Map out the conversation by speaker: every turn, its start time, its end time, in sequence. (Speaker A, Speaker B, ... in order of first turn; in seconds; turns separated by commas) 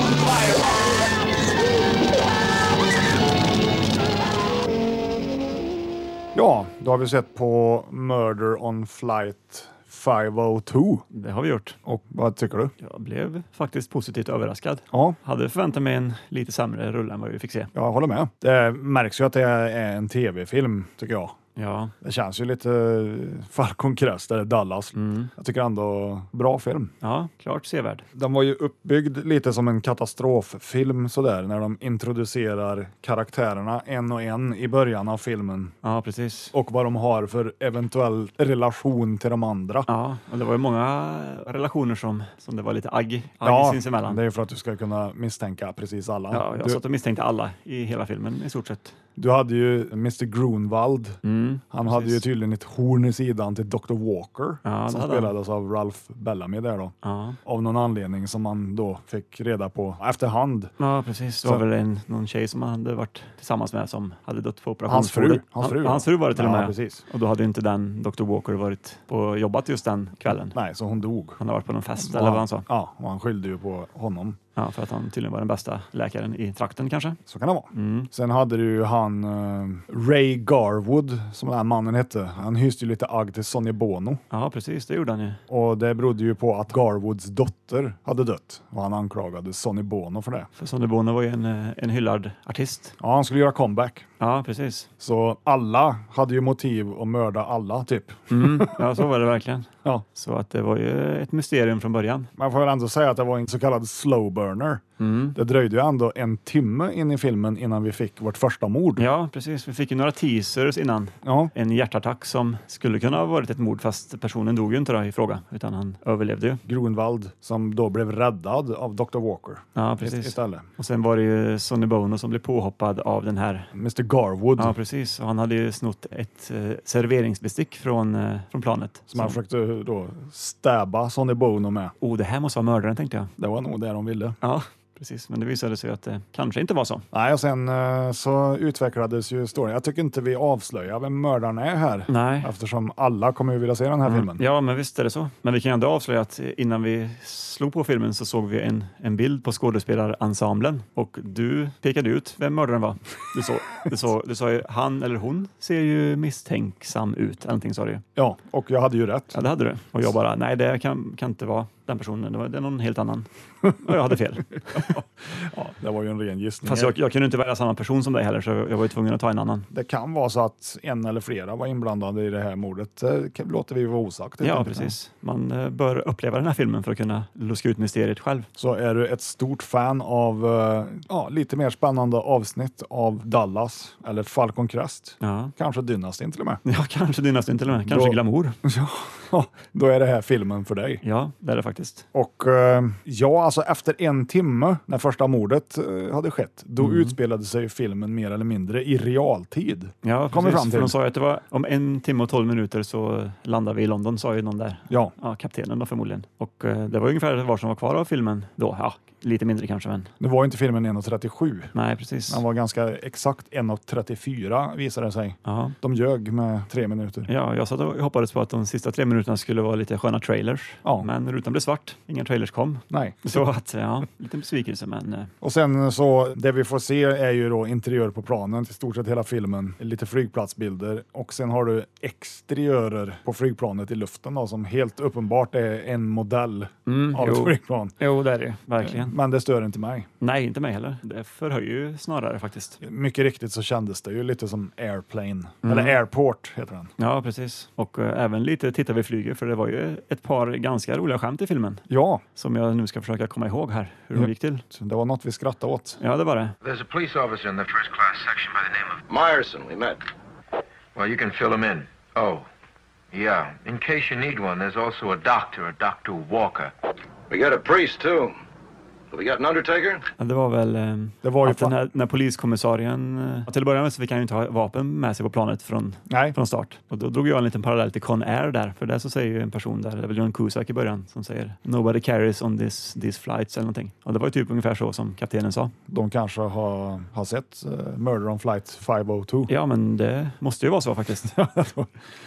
Speaker A: 6.3-11.1, Speaker B: 11.1-11.8, Speaker A: 11.8-12.7, Speaker B: 12.8-17.7, Speaker A: 14.9-15.2, Speaker A: 17.7-21.4, Speaker B: 21.6-21.9, Speaker A: 22.0-26.9, Speaker B: 25.0-25.3, Speaker B: 27.0-28.1, Speaker A: 28.1-35.7, Speaker B: 35.8-36.5, Speaker A: 36.5-39.9, Speaker B: 39.9-44.2, Speaker A: 43.4-46.8, Speaker B: 46.3-49.0, Speaker A: 49.2-51.2, Speaker B: 51.2-52.2, Speaker A: 51.7-60.7, Speaker B: 54.6-55.3, Speaker B: 57.0-57.4, Speaker B: 60.8-70.6, Speaker A: 64.9-67.0, Speaker A: 70.5-71.4, Speaker B: 71.4-72.7, Speaker A: 72.0-74.4, Speaker B: 74.6-77.2, Speaker A: 77.3-84.2, Speaker B: 77.7-78.1, Speaker B: 84.3-85.4, Speaker A: 85.5-90.5, Speaker B: 90.6-92.9, Speaker A: 93.0-94.1, Speaker B: 94.2-94.9, Speaker A: 95.0-98.9, Speaker B: 98.3-102.3, Speaker A: 102.4-104.8, Speaker B: 105.0-105.4, Speaker A: 105.3-109.1, Speaker B: 109.0-116.6, Speaker A: 111.2-111.5, Speaker A: 116.7-120.7, Speaker B: 119.8-123.7, Speaker A: 123.7-124.8, Speaker B: 124.6-129.4, Speaker A: 129.1-131.9, Speaker B: 132.0-133.3, Speaker A: 133.4-134.4, Speaker B: 134.4-137.1, Speaker A: 137.1-144.4, Speaker B: 142.1-142.5, Speaker B: 144.1-158.0, Speaker A: 158.2-159.4, Speaker B: 159.3-164.9, Speaker A: 164.7-167.0, Speaker B: 166.6-169.7, Speaker A: 169.7-174.9, Speaker B: 174.4-178.5, Speaker A: 178.6-186.6, Speaker B: 185.2-185.5, Speaker B: 186.7-188.6, Speaker A: 187.9-191.0, Speaker B: 191.0-192.1, Speaker A: 192.1-201.0, Speaker B: 196.8-197.1, Speaker B: 200.0-210.1, Speaker A: 210.2-211.7, Speaker B: 211.7-212.4, Speaker A: 212.3-217.3, Speaker B: 215.4-215.8, Speaker B: 217.3-225.3, Speaker A: 222.9-223.4, Speaker A: 225.4-237.9, Speaker B: 236.9-239.2, Speaker A: 238.8-240.1, Speaker B: 240.2-242.8, Speaker A: 242.8-246.9, Speaker B: 245.6-245.9, Speaker B: 247.0-254.6, Speaker A: 251.9-252.2, Speaker A: 254.1-256.0, Speaker B: 256.0-256.6, Speaker C: 256.6-259.0, Speaker D: 259.1-260.0, Speaker C: 260.9-262.5, Speaker C: 263.1-266.7, Speaker D: 267.3-268.4, Speaker D: 269.1-270.0, Speaker B: 270.2-285.7, Speaker A: 271.2-271.8, Speaker A: 276.1-276.4, Speaker A: 285.9-289.5, Speaker B: 289.5-291.4, Speaker A: 291.2-291.9